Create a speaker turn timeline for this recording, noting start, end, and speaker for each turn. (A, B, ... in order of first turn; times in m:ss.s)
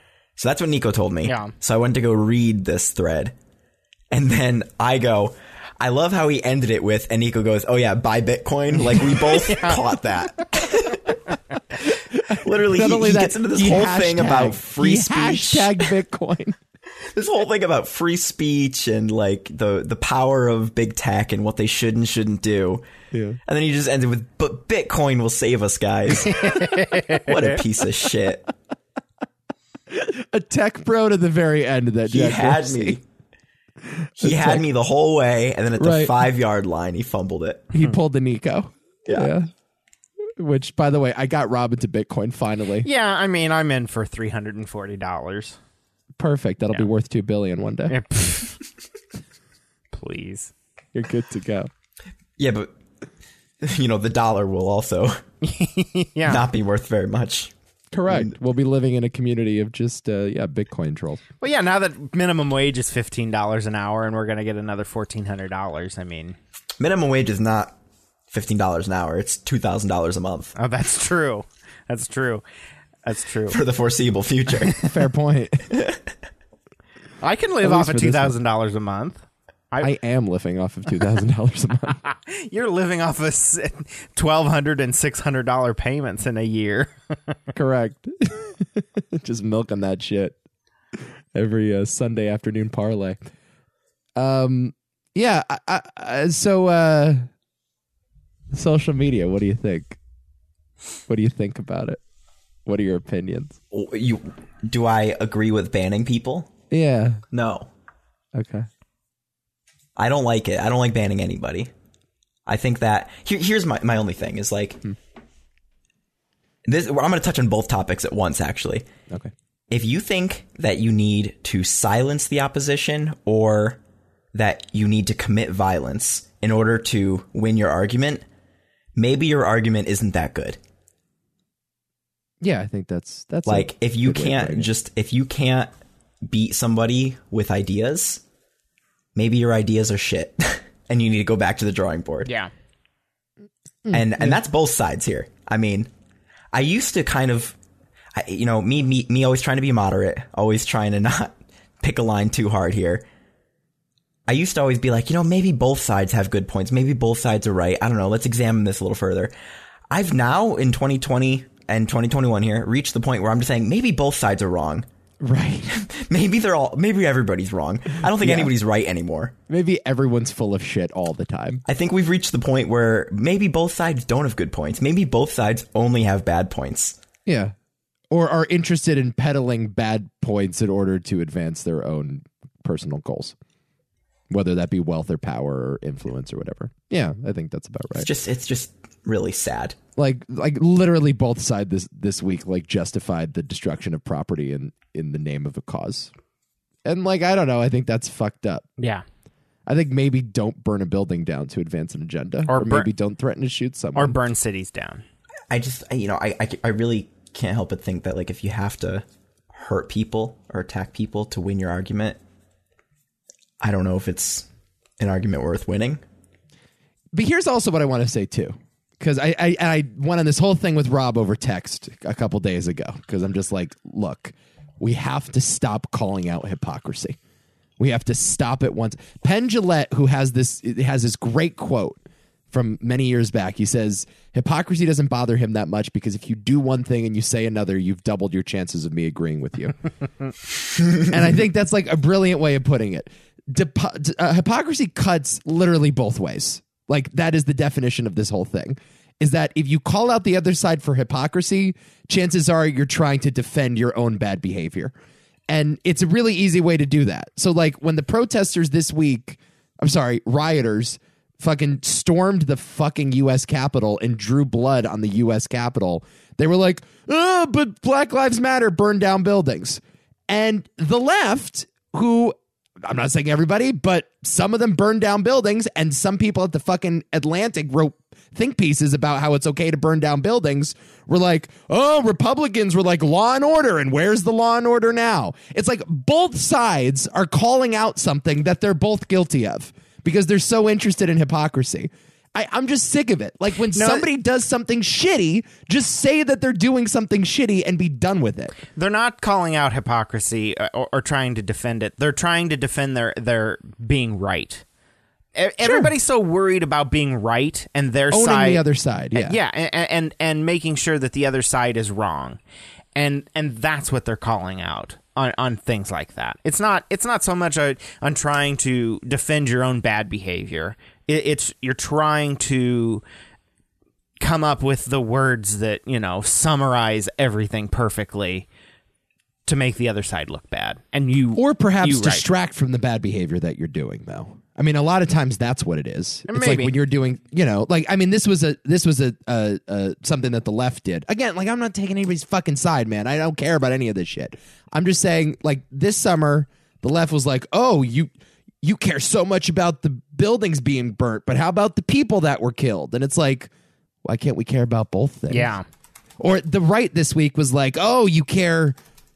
0:00.4-0:03.3 A
0:01.2-0:01.5 B
0:04.1-0:11.2 A
0:09.4-0:09.8 B
0:11.8-0:15.9 A
0:12.3-0:16.6 C
0:17.1-0:22.8 A
0:23.1-0:23.4 C
0:23.4-0:28.4 A
0:26.2-0:27.5 B
0:29.9-0:33.0 C
0:32.1-0:33.0 A
0:33.9-0:34.6 C
0:34.2-0:37.7 A
0:35.8-0:36.2 C
0:37.7-0:39.5 C
0:39.0-0:39.3 A
0:40.4-0:42.9 C
0:42.8-0:45.6 B
0:46.2-0:48.0 C
0:47.9-0:48.5 B
0:49.9-0:50.5 B
0:50.9-0:51.7 C
0:52.4-0:52.7 A
0:53.6-0:55.2 A
0:55.4-0:56.4 B
0:56.2-0:57.5 A
0:57.9-1:01.2 C
0:58.1-0:58.3 A
1:01.4-1:06.4 B
1:06.8-1:07.8 A
1:08.3-1:10.5 A
1:10.6-1:12.4 B
1:13.0-1:13.6 B
1:13.5-1:14.9 A
1:14.8-1:15.7 C
1:15.7-1:16.0 A
1:17.2-1:19.9 B
1:17.6-1:18.4 C
1:19.8-1:22.0 C
1:22.0-1:27.3 B
1:27.5-1:30.4 C
1:30.9-1:33.2 C
1:34.2-1:37.3 C
1:38.5-1:40.0 C
1:41.1-1:42.0 C
1:42.6-1:43.6 C
1:43.7-1:46.5 A
1:46.7-1:47.2 C
1:47.3-1:47.7 A
1:48.3-1:48.7 C
1:50.0-1:51.7 A
1:52.4-1:54.8 A
1:56.6-1:58.8 A
1:59.7-2:03.8 A
2:04.3-2:08.2 A
2:09.0-2:10.6 A
2:12.4-2:14.7 C
2:13.4-2:15.7 A
2:16.2-2:18.2 A
2:19.1-2:22.3 A
2:22.2-2:22.5 B
2:23.8-2:24.4 C
2:23.9-2:25.9 A
2:26.5-2:27.6 A
2:28.1-2:33.0 A
2:34.3-2:39.3 A
2:39.9-2:44.8 A
2:45.2-2:45.7 C
2:45.6-2:49.3 A
2:48.1-2:48.5 C
2:49.5-2:51.6 C
2:51.6-2:57.0 A
2:57.2-2:57.5 C
2:58.1-3:03.3 C
3:04.3-3:08.1 C
3:08.0-3:09.8 A
3:10.0-3:16.1 C
3:16.8-3:18.7 C
3:18.8-3:19.0 B
3:19.7-3:24.2 C
3:22.5-3:22.9 B
3:23.9-3:25.0 B
3:25.5-3:32.2 A
3:33.6-3:34.4 A
3:35.0-3:36.0 A
3:37.1-3:47.2 C
3:47.8-3:52.0 C
3:52.5-3:59.8 C
4:01.0-4:14.9 C
4:15.5-4:58.5 C
4:53.7-4:54.0 B
4:58.7-5:04.6 B
5:05.3-5:12.4 B
5:05.6-5:05.9 C
5:08.1-5:09.4 C
5:12.9-5:23.0 B
5:24.2-5:28.5 B
5:29.4-5:32.3 B
5:31.4-5:53.5 C
5:36.3-5:36.7 B
5:54.0-5:55.5 C
5:55.3-5:55.6 B
5:56.2-5:58.8 C